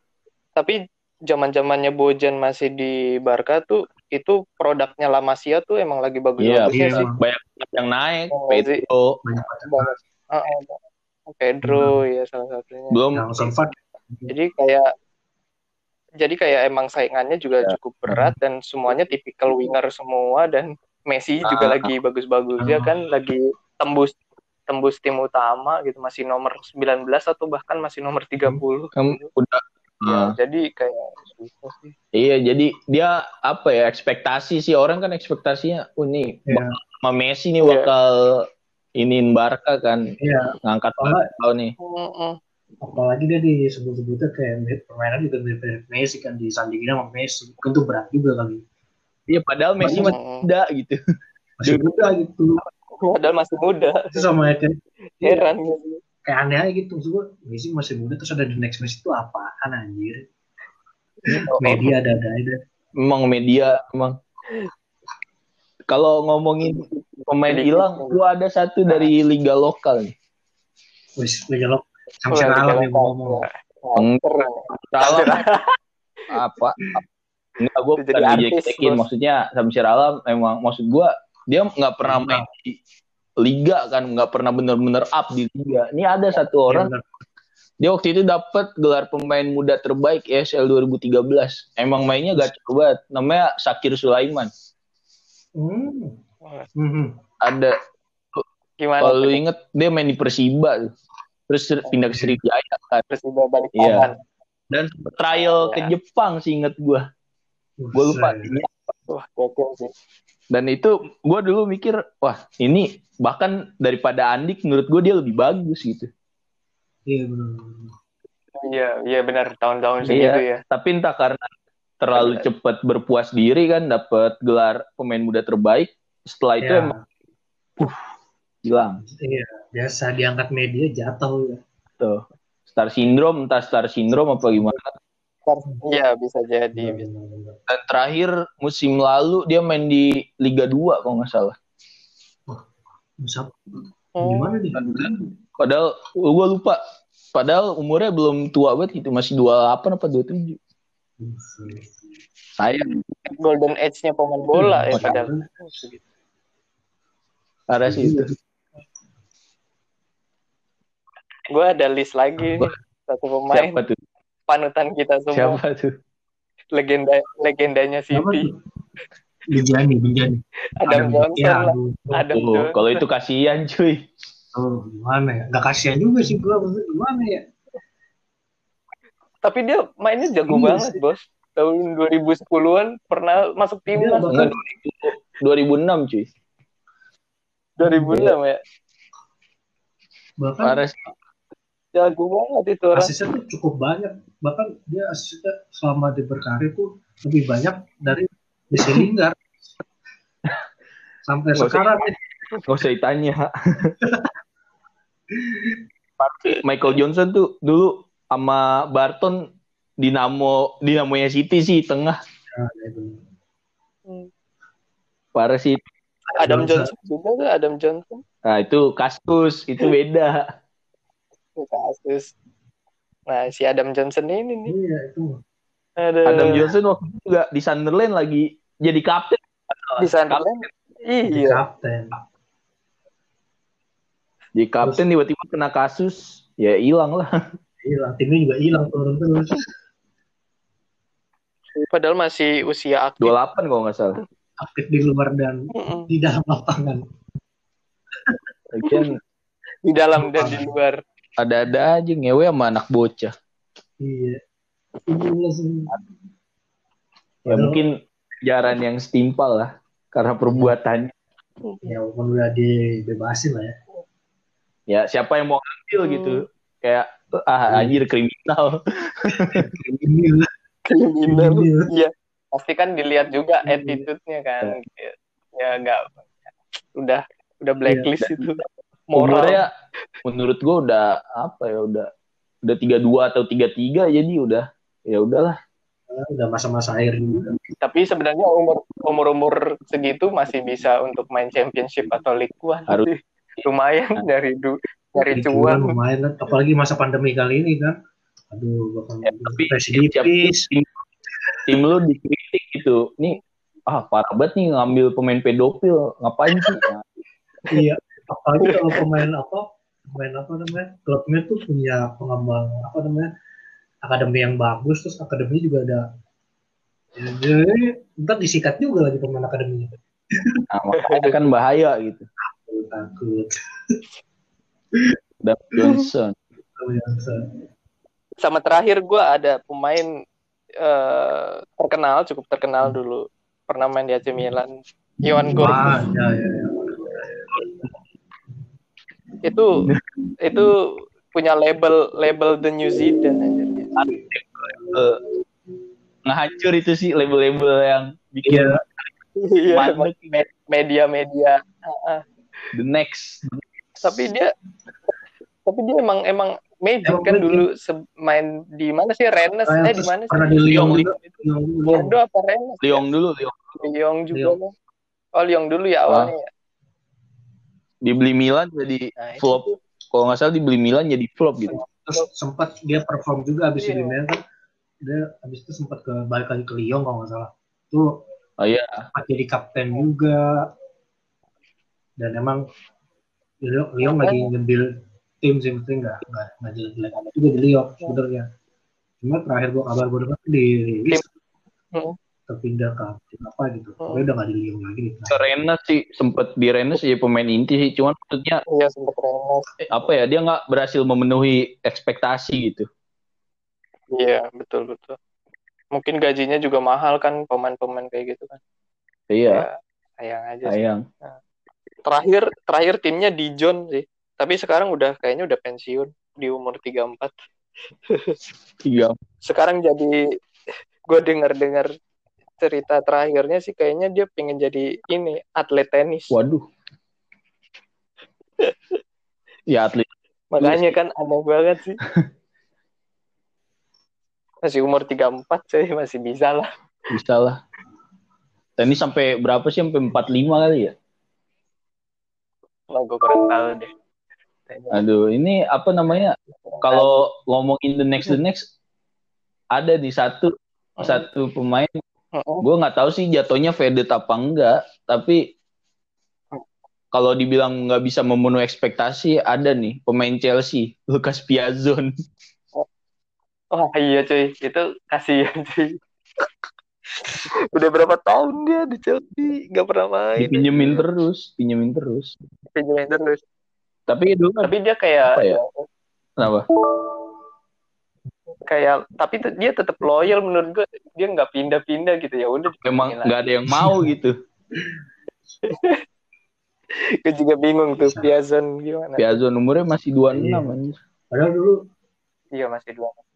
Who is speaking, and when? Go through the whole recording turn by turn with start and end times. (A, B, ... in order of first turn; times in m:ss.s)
0:00.6-0:07.0 A
0:06.4-0:09.2 B
0:06.7-0:07.2 C
0:08.3-0:08.8 A
0:09.2-0:09.9 C
0:09.4-0:13.0 A
0:11.6-0:12.0 C
0:12.9-0:13.3 B
0:13.2-0:14.3 C
0:14.3-0:14.9 A
0:16.2-0:24.2 A
0:21.4-0:21.9 B
0:22.6-0:22.9 C
0:24.7-0:29.3 A
0:28.9-0:30.3 B
0:30.0-0:31.9 A
0:32.1-0:38.4 B
0:36.5-0:36.8 C
0:37.6-0:37.9 A
0:39.0-0:40.0 B
0:40.2-0:41.2 C
0:40.6-0:41.7 B
0:41.8-0:42.4 A
0:42.8-0:48.6 C
0:49.3-0:51.0 B
0:49.8-0:50.1 C
0:49.8-0:50.4 A
0:51.6-0:52.6 C
0:53.0-0:54.3 A
0:54.1-0:55.5 C
0:55.2-0:56.0 A
0:56.2-1:00.2 C
1:01.3-1:02.6 C
1:01.3-1:01.8 A
1:01.6-1:01.9 B
1:03.0-1:04.2 B
1:05.9-1:10.1 B
1:06.8-1:08.2 A
1:08.9-1:09.1 A
1:11.2-1:13.4 C
1:12.3-1:15.7 A
1:14.0-1:15.4 B
1:16.3-1:17.0 B
1:17.6-1:22.8 B
1:18.0-1:19.0 A
1:22.0-1:22.5 C
1:23.4-1:26.9 B
1:26.7-1:27.0 C
1:27.8-1:34.5 B
1:35.6-1:36.2 C
1:36.8-1:37.2 C
1:37.4-1:37.7 B
1:38.8-1:39.4 A
1:39.0-1:40.9 B
1:41.5-1:43.0 B
1:42.1-1:42.4 C
1:43.1-1:44.2 A
1:43.7-1:44.1 B
1:44.7-1:47.0 B
1:45.3-1:45.9 A
1:47.8-1:48.6 C
1:47.9-1:48.7 B
1:49.1-1:49.9 A
1:50.5-1:56.1 B
1:57.1-1:57.9 C
1:58.6-2:00.6 A
2:00.1-2:01.5 B
2:02.0-2:06.9 B
2:02.1-2:02.5 A
2:06.6-2:07.0 C
2:08.6-2:09.0 B
2:09.1-2:11.6 C
2:12.0-2:14.9 B
2:15.4-2:17.0 A
2:16.8-2:17.6 C
2:17.7-2:21.6 B
2:23.2-2:25.3 C
2:24.2-2:24.5 A
2:24.8-2:26.8 B
2:27.3-2:30.6 B
2:31.2-2:31.9 C
2:32.6-2:32.9 B
2:33.2-2:36.0 A
2:34.6-2:35.5 C
2:34.9-2:35.2 B
2:37.7-2:38.3 B
2:37.8-2:38.3 C
2:41.5-2:43.8 A
2:43.5-2:44.0 B
2:44.5-2:45.6 A
2:45.3-2:45.9 B
2:46.7-2:48.5 A
2:48.1-2:48.5 C
2:49.5-2:52.3 C
2:50.8-2:52.9 A
2:52.3-2:54.0 B
2:54.5-2:57.4 C
2:59.4-3:04.5 A
3:00.5-3:01.0 C
3:03.9-3:04.6 C
3:04.3-3:06.3 B
3:07.8-3:08.6 A
3:07.8-3:08.3 C
3:10.4-3:10.8 C
3:10.6-3:11.0 B
3:11.9-3:13.1 A
3:12.9-3:19.3 C
3:21.2-3:22.2 C
3:21.6-3:22.0 B
3:22.7-3:23.9 B
3:24.0-3:24.3 C
3:25.3-3:25.8 C
3:26.5-3:29.4 B
3:30.0-3:32.2 B
3:32.5-3:33.2 C
3:35.3-3:35.8 B
3:36.3-3:36.9 C
3:36.4-3:38.2 A
3:38.4-3:40.4 B
3:41.6-3:42.3 A
3:43.3-3:44.7 A
3:44.7-3:45.4 C
3:46.0-3:46.6 A
3:46.2-3:50.5 B
3:46.4-3:46.7 C
3:50.0-3:51.6 A
3:51.3-3:52.2 C
3:54.6-3:57.3 B
3:57.8-3:59.6 C
4:01.8-4:03.4 A
4:03.2-4:04.2 B
4:04.6-4:07.0 C
4:05.7-4:06.1 A
4:08.7-4:09.2 B
4:09.8-4:11.0 A
4:10.2-4:10.7 C
4:11.4-4:13.3 B
4:14.0-4:14.4 C
4:15.0-4:15.9 C
4:17.4-4:17.8 C
4:17.5-4:21.1 B
4:20.4-4:20.7 C
4:21.6-4:22.0 A
4:21.8-4:23.8 C
4:24.9-4:29.7 B
4:26.0-4:26.4 A
4:27.7-4:28.0 C
4:29.4-4:30.5 C
4:30.9-4:39.6 A
4:31.3-4:31.9 C
4:33.6-4:34.1 C
4:38.2-4:38.6 B
4:39.1-4:39.7 B
4:40.2-4:42.1 B
4:42.6-4:45.6 B
4:46.1-4:47.6 C
4:47.8-4:56.0 A
4:55.3-4:58.0 C
4:58.5-5:00.7 C
4:59.2-5:00.9 B
5:01.7-5:07.0 B
5:07.7-5:13.3 C
5:08.6-5:09.0 A
5:14.0-5:16.0 C
5:17.2-5:20.6 C
5:20.7-5:22.3 B
5:20.9-5:21.3 A
5:22.4-5:24.0 C
5:25.4-5:26.4 B
5:26.8-5:27.6 C
5:28.4-5:30.1 A
5:30.8-5:35.8 A
5:35.6-5:37.8 C
5:39.4-5:39.8 A
5:40.4-5:43.9 A
5:44.0-5:45.2 B
5:46.2-5:48.8 B
5:48.4-5:48.8 C
5:49.4-5:50.1 A
5:49.7-5:50.5 B
5:50.6-5:52.2 A
5:52.7-5:53.6 B
5:54.0-5:54.5 A
5:55.6-6:01.3 A
5:57.0-5:57.6 C
5:59.7-6:02.1 C
6:00.7-6:01.1 B
6:01.9-6:03.0 A
6:02.8-6:03.8 B
6:03.8-6:04.7 A
6:05.4-6:06.5 A
6:06.1-6:06.3 B
6:08.0-6:11.8 B
6:09.2-6:09.8 A
6:11.7-6:14.4 C
6:11.8-6:12.3 A
6:13.8-6:14.2 A
6:15.0-6:18.2 C
6:18.6-6:19.1 B
6:19.1-6:20.7 C
6:22.2-6:22.6 C
6:23.6-6:24.9 C
6:24.0-6:24.5 A
6:25.4-6:28.4 C
6:29.2-6:31.2 C
6:32.5-6:35.4 C
6:34.0-6:34.3 A
6:35.3-6:38.6 B
6:38.7-6:39.7 A
6:39.8-6:42.9 B
6:44.1-6:45.2 A
6:45.9-6:48.6 A
6:49.3-6:49.7 B
6:49.5-6:51.4 A
6:50.6-6:51.0 B
6:52.0-6:57.3 A
6:58.1-6:58.4 A
6:58.8-6:59.2 B
6:59.4-7:00.2 A
7:01.1-7:01.9 A
7:02.6-7:06.4 A
7:06.3-7:06.6 B
7:08.6-7:09.0 A
7:09.7-7:11.0 B
7:10.5-7:12.0 A
7:14.6-7:16.7 A
7:17.1-7:17.6 B
7:18.8-7:20.9 B
7:22.9-7:23.9 A
7:24.7-7:25.0 A
7:24.9-7:28.7 B
7:26.6-7:27.2 A
7:29.7-7:32.0 B
7:32.3-7:32.6 A
7:32.6-7:35.5 B
7:37.1-7:42.1 B
7:43.7-7:46.4 A
7:47.2-7:51.0 A
7:50.4-7:52.3 B
7:52.7-7:53.4 A
7:54.1-7:54.7 B
7:54.6-7:55.8 A
7:55.3-7:55.6 B
7:56.4-7:56.6 B
7:58.7-8:03.4 A
8:02.8-8:04.3 B
8:03.7-8:04.1 C
8:05.6-8:06.0 A
8:07.2-8:09.4 A
8:08.0-8:08.3 C
8:09.2-8:11.0 B
8:10.3-8:10.7 C
8:11.3-8:11.8 C
8:12.5-8:13.2 A